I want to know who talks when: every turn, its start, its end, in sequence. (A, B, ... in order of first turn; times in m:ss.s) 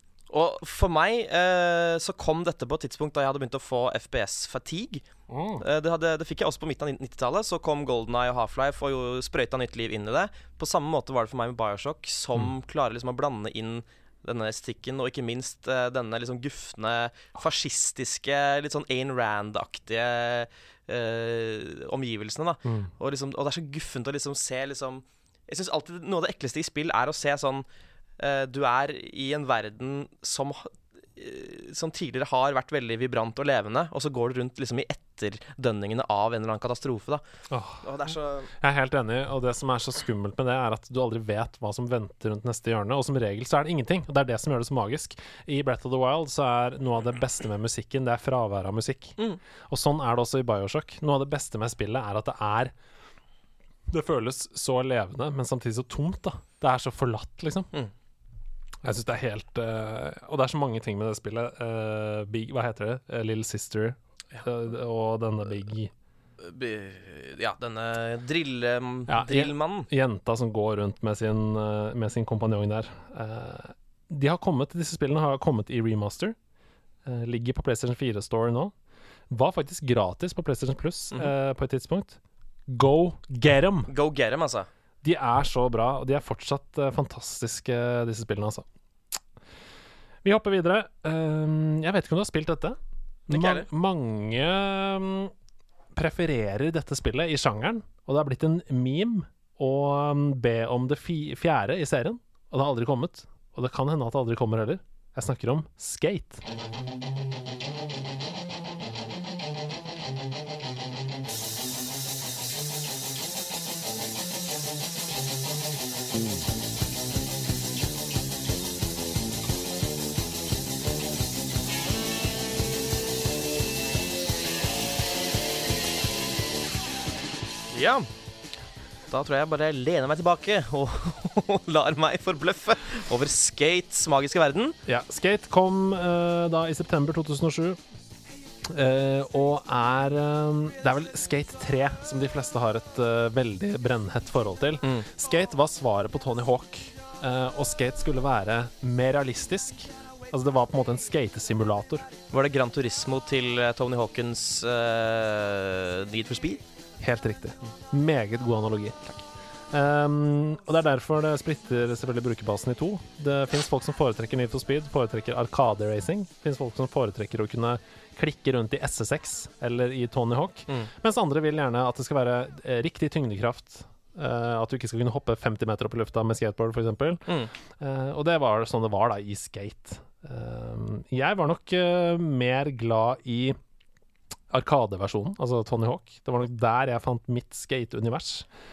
0:00.3-0:05.0 A
0:05.3-0:05.6 B
0:05.6-0:27.6 A
0:22.6-0:22.9 B
0:28.2-0:37.2 A
0:37.5-0:49.2 B
0:37.8-0:38.5 A
0:49.7-0:52.7 B
0:53.9-0:57.7 B
0:58.8-1:05.9 B
1:06.4-1:09.9 A
1:09.1-1:16.4 B
1:17.0-1:18.7 B
1:19.3-1:23.9 B
1:23.9-1:24.7 A
1:25.0-1:28.6 B
1:30.2-1:35.3 B
1:33.3-1:33.7 A
1:35.9-1:46.4 B
2:07.7-2:08.1 A
2:09.1-2:14.8 A
2:14.8-2:17.8 B
2:18.6-2:32.1 B
2:32.3-2:36.6 A
2:37.0-2:39.2 B
2:39.7-2:57.2 B
2:57.8-3:03.6 B
3:04.5-3:08.5 B